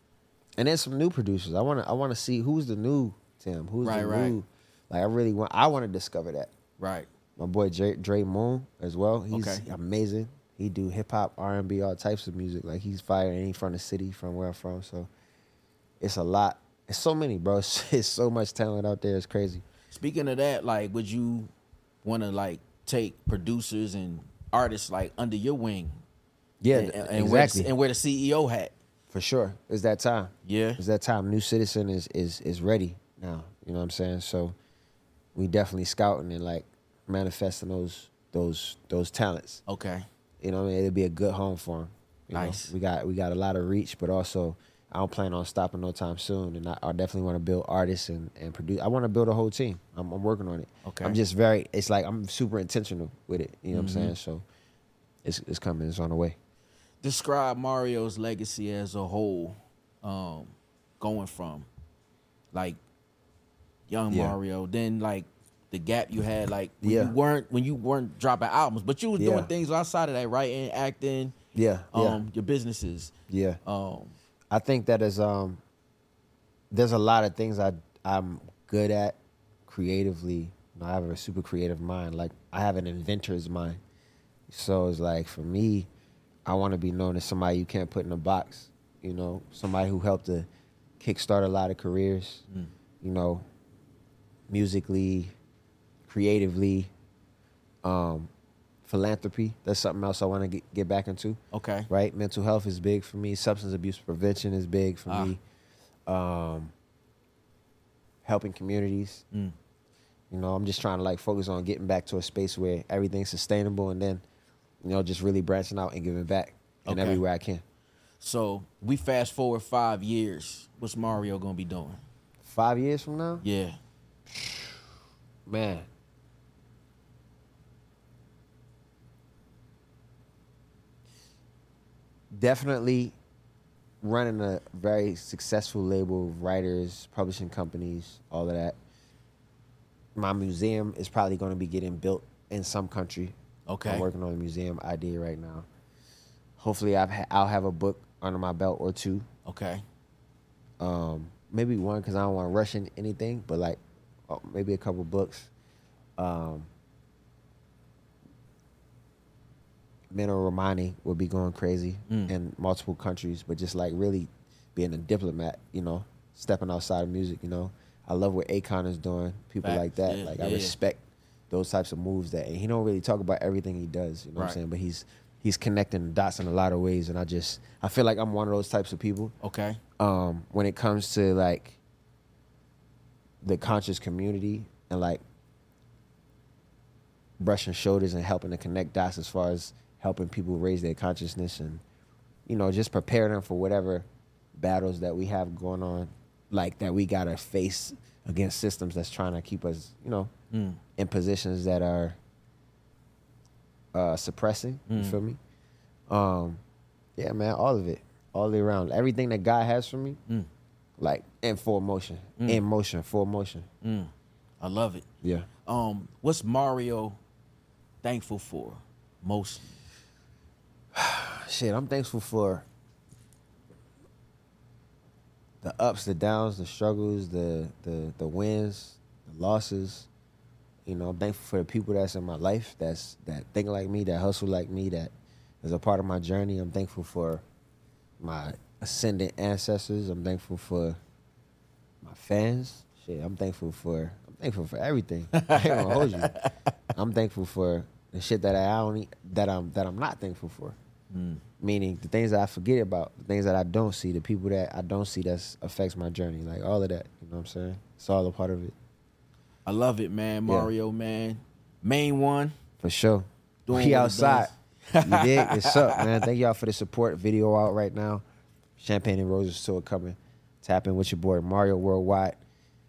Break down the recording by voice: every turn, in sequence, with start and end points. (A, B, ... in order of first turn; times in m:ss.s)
0:00.6-0:06.5 A
0:03.8-0:04.4 B
0:06.8-0:07.1 B
0:07.4-0:15.1 A
0:09.3-0:09.6 B
0:16.0-0:19.6 A
0:19.9-0:21.5 B
0:22.0-0:26.0 B
0:26.6-0:27.7 A
0:26.7-0:28.7 B
0:29.1-0:34.5 A
0:30.4-0:30.8 B
0:35.3-0:39.6 A
0:39.7-0:40.0 B
0:40.4-0:54.4 A
0:42.3-0:42.7 B
0:50.8-0:51.2 B
0:53.7-0:54.1 B
0:55.2-0:56.4 A
0:57.0-1:01.7 B
1:02.5-1:02.8 B
1:03.9-1:11.3 B
1:04.1-1:04.4 A
1:06.8-1:07.1 A
1:09.2-1:09.5 A
1:11.5-1:12.2 A
1:11.9-1:13.1 B
1:13.3-1:13.6 A
1:13.6-1:14.1 B
1:14.5-1:15.6 A
1:16.7-1:23.8 A
1:24.5-1:25.9 A
1:26.4-1:30.5 A
1:31.0-1:32.4 A
1:33.0-1:33.4 A
1:34.5-1:35.3 A
1:36.0-1:36.9 A
1:37.8-1:38.3 A
1:38.8-1:41.4 A
1:41.5-1:41.9 B
1:41.9-1:45.4 A
1:45.1-1:45.4 B
1:46.1-1:46.7 A
1:48.2-1:49.2 A
1:50.3-1:54.2 A
1:54.8-1:57.6 A
1:56.9-1:57.2 B
1:58.2-2:02.0 B
2:02.4-2:03.4 A
2:03.4-2:03.8 B
2:05.5-2:05.9 A
2:12.3-2:13.1 A
2:14.0-2:18.8 A
2:20.1-2:23.3 A
2:23.7-2:24.1 B
2:23.8-2:25.7 A
2:26.6-2:29.2 A
2:29.4-2:29.8 B
2:30.8-2:35.5 A
2:36.2-2:36.7 A
2:40.1-2:59.3 A
2:42.1-2:42.3 B
2:49.6-2:50.8 B
2:59.4-2:59.8 B
3:00.0-3:01.8 A
3:03.4-3:05.2 A
3:07.4-3:11.8 A
3:12.4-3:20.3 A
3:20.5-3:20.8 B
3:21.0-3:22.2 A
3:23.9-3:25.4 A
3:24.9-3:25.2 B
3:26.1-3:26.6 A
3:27.2-3:30.2 A
3:31.0-3:33.7 A
3:32.4-3:32.6 B
3:33.8-3:35.0 B
3:35.2-3:35.5 A
3:35.6-3:37.2 B
3:38.0-3:39.7 B
3:40.9-3:42.6 A
3:45.6-3:50.1 A
3:50.8-3:57.4 A
3:58.2-4:01.0 A
4:02.0-4:06.3 A
4:05.3-4:06.7 B
4:06.9-4:10.8 A
4:11.1-4:11.4 B
4:11.6-4:18.7 A
4:19.6-4:22.5 B
4:22.8-4:28.2 A
4:23.7-4:26.2 B
4:28.8-4:32.4 A